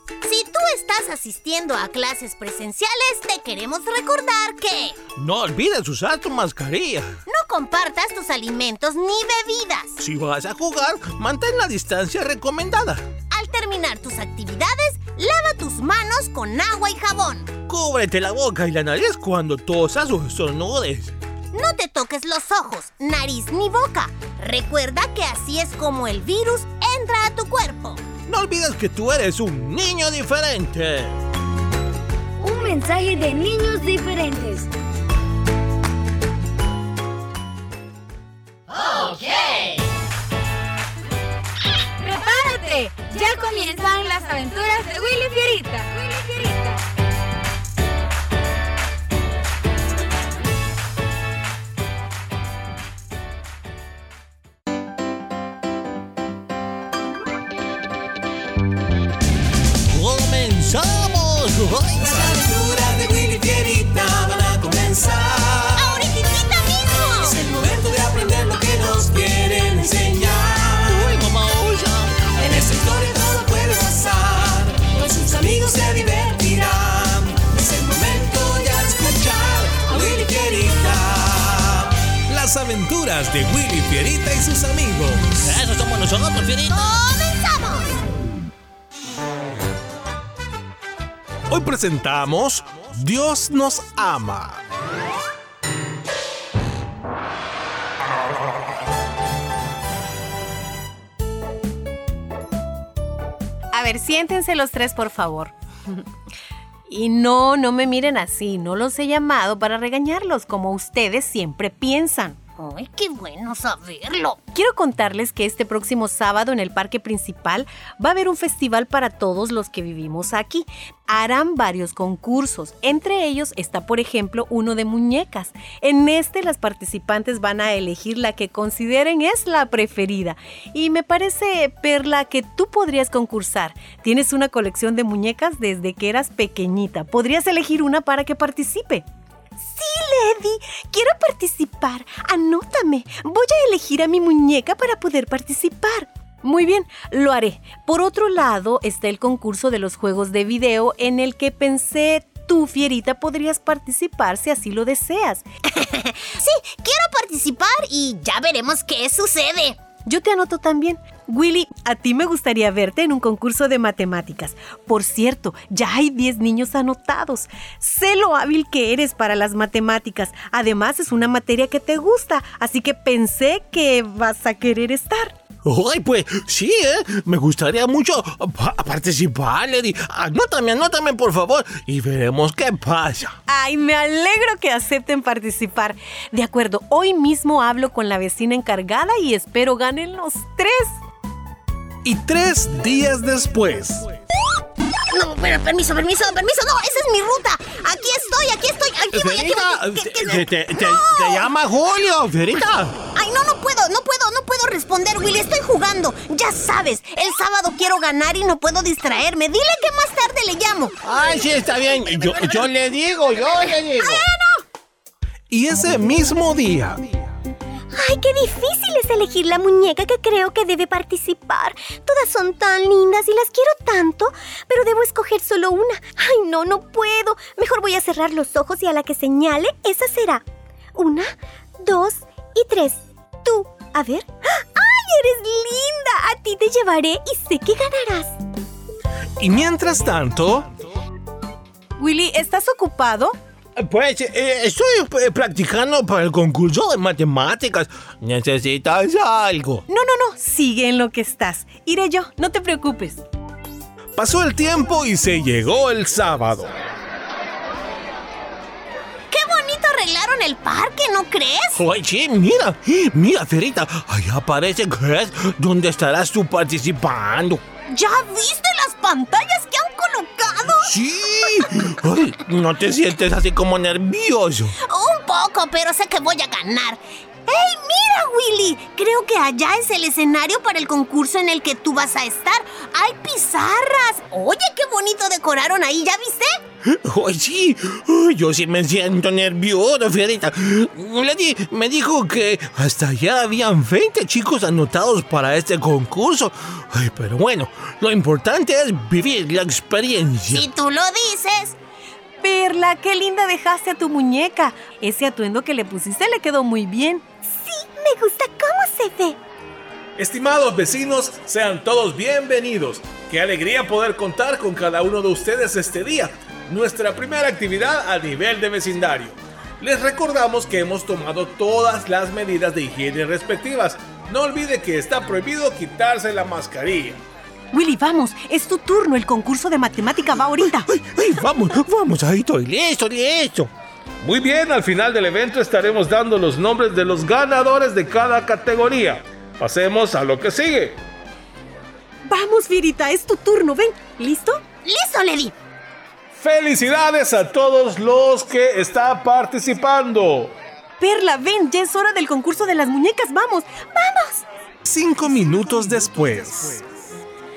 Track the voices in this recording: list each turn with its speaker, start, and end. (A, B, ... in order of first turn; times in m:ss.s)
0:00.2-0:05.0 A
0:05.2-0:07.2 B
0:07.3-0:10.0 A
0:10.0-0:13.0 B
0:13.3-0:17.5 A
0:17.7-0:21.1 B
0:21.5-0:28.0 A
0:28.3-0:31.2 B
0:32.4-0:34.7 C
0:42.0-0:46.8 D
0:59.9-1:02.2 B
1:02.0-1:06.0 E
1:05.7-1:07.4 A
1:07.2-1:11.1 E
1:10.8-1:12.3 B
1:12.4-1:25.4 E
1:25.3-1:27.0 B
1:26.7-1:27.9 A
1:31.5-1:34.6 E
1:43.7-1:46.0 F
1:46.9-1:52.4 F
1:52.6-1:54.4 A
1:54.5-2:19.1 F
2:19.6-2:35.4 F
2:35.7-2:39.8 A
2:40.0-2:55.3 F
2:55.6-3:03.4 B
3:03.5-3:11.0 F
3:12.0-3:14.1 E
3:15.1-3:21.5 A
3:19.1-3:23.0 B
3:23.1-3:32.5 A
3:31.0-3:34.2 B
3:34.0-3:34.5 A
3:35.5-3:37.0 E
3:37.9-3:58.4 G
3:59.4-4:00.7 E
4:02.0-4:03.4 F
4:03.8-4:09.8 B
4:09.9-4:13.2 F
4:14.2-4:16.7 E
4:19.3-4:21.8 A
4:21.8-4:27.6 B
4:27.9-4:30.9 A
4:30.8-4:34.8 B
4:34.8-4:46.6 A
4:46.8-5:00.6 B
5:00.5-5:01.8 A
5:02.4-5:07.3 F
5:07.4-5:09.4 G
5:10.2-5:27.2 E
5:27.7-5:30.9 F
5:30.9-5:33.7 B
5:34.2-5:41.0 E
5:42.3-5:44.6 F
5:44.8-5:45.5 A
5:46.3-5:50.5 E
5:51.0-5:54.4 F
5:54.8-5:56.8 E